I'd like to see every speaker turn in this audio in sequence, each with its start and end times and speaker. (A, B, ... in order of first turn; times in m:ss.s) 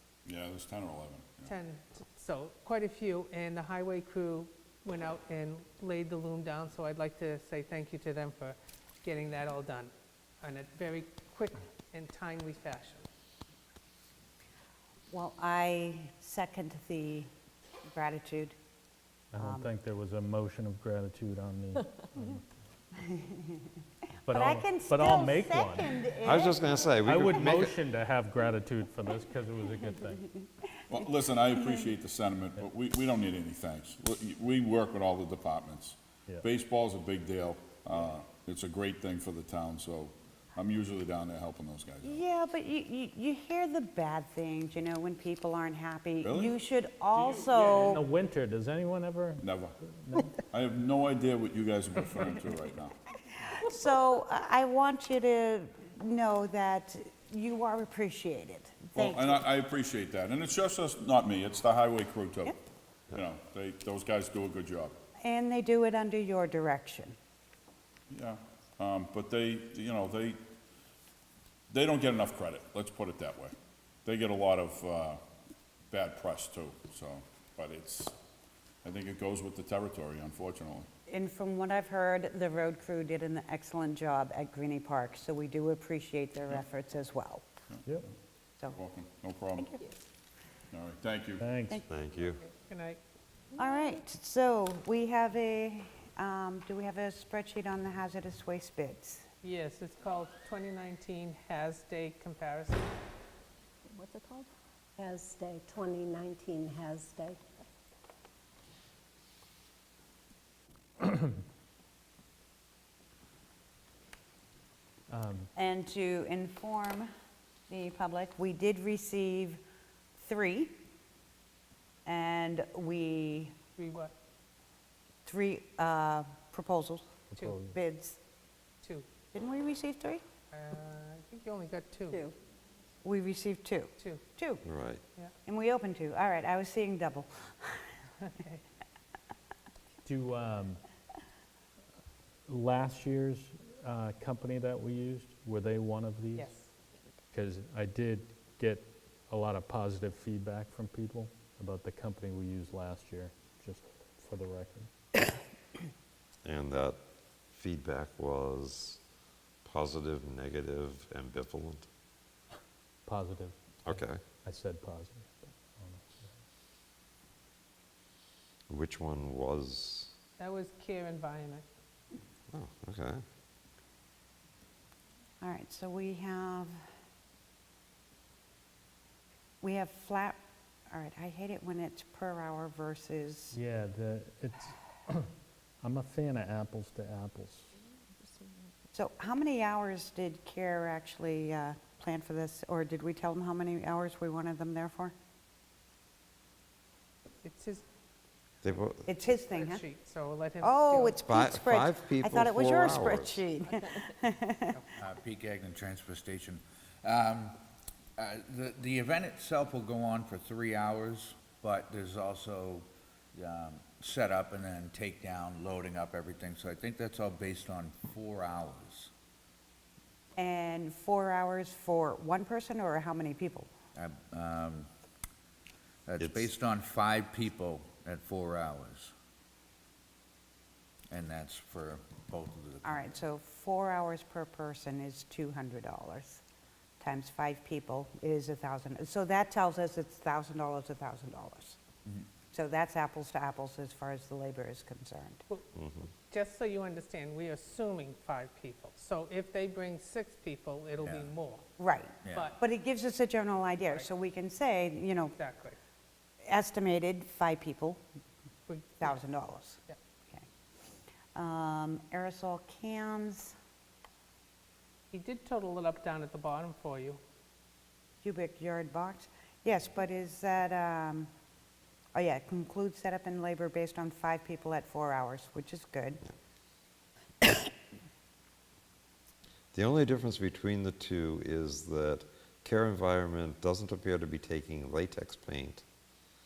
0:00.3-0:01.5 A
0:01.5-0:13.1 B
0:15.1-0:17.3 C
0:17.9-0:18.6 C
0:19.3-0:22.5 D
0:19.4-0:19.7 C
0:24.3-0:26.4 D
0:24.3-0:26.9 C
0:26.2-0:27.8 E
0:27.0-0:30.3 D
0:30.9-0:42.2 A
0:42.0-0:48.0 C
0:46.2-0:46.6 A
0:47.5-0:48.0 A
0:47.8-0:50.3 D
0:49.4-0:49.8 A
0:50.3-0:53.0 A
0:53.4-0:59.4 C
0:59.0-1:02.6 A
1:03.1-1:05.0 A
1:05.2-1:07.2 C
1:08.1-1:10.4 A
1:11.7-1:13.5 A
1:14.0-1:15.2 A
1:15.9-1:18.2 A
1:18.8-1:20.9 A
1:21.1-1:27.4 C
1:27.7-1:28.1 A
1:28.8-1:29.8 A
1:29.6-1:29.9 C
1:30.7-1:31.5 A
1:31.4-1:31.8 D
1:31.9-1:32.4 E
1:32.4-1:33.0 B
1:33.6-1:39.3 C
1:39.4-1:42.9 B
1:45.0-1:47.4 F
1:51.0-1:51.3 D
1:55.1-1:55.5 D
1:55.5-1:57.1 C
1:57.7-1:59.6 C
2:00.2-2:00.7 C
2:02.1-2:03.5 C
2:03.8-2:04.1 B
2:05.3-2:07.2 C
2:07.3-2:07.8 D
2:07.7-2:08.2 C
2:09.3-2:10.2 C
2:10.5-2:12.3 B
2:13.0-2:14.6 C
2:14.6-2:15.0 E
2:15.4-2:17.8 C
2:18.2-2:18.6 B
2:20.0-2:20.8 D
2:22.5-2:26.5 D
2:26.4-2:26.7 B
2:27.3-2:34.9 D
2:36.4-2:37.0 E
2:37.5-2:39.0 E
2:39.6-2:41.9 E
2:43.1-2:46.4 D
2:43.8-2:44.2 E
2:48.7-2:50.1 E
2:50.4-2:51.7 B
2:52.5-2:53.2 E
2:55.4-2:56.8 C
2:59.6-3:00.4 C
3:00.9-3:03.6 C
3:03.5-3:07.7 D
3:08.9-3:15.1 C
3:17.4-3:17.8 B
3:18.6-3:19.1 E
3:19.1-3:19.8 C
3:19.4-3:21.2 B
3:20.6-3:24.8 C
3:21.2-3:23.4 E
3:25.0-3:27.6 G
3:28.2-3:39.1 G
3:40.4-3:43.7 C
3:44.0-3:44.9 G
3:46.1-3:49.1 G
3:46.2-3:46.5 E
3:51.1-3:53.2 G
3:52.8-3:56.4 C
3:57.0-4:01.8 C
4:02.5-4:05.4 C
4:05.8-4:06.1 E
4:06.3-4:11.6 B
4:11.0-4:11.3 G
4:11.8-4:15.3 C
4:12.3-4:12.6 B
4:15.3-4:15.8 B
4:16.4-4:18.0 C
4:18.7-4:19.2 B
4:19.0-4:20.4 C
4:21.4-4:23.5 C
4:25.1-4:27.2 B
4:28.2-4:31.3 C
4:32.2-4:36.2 C
4:39.7-4:45.8 E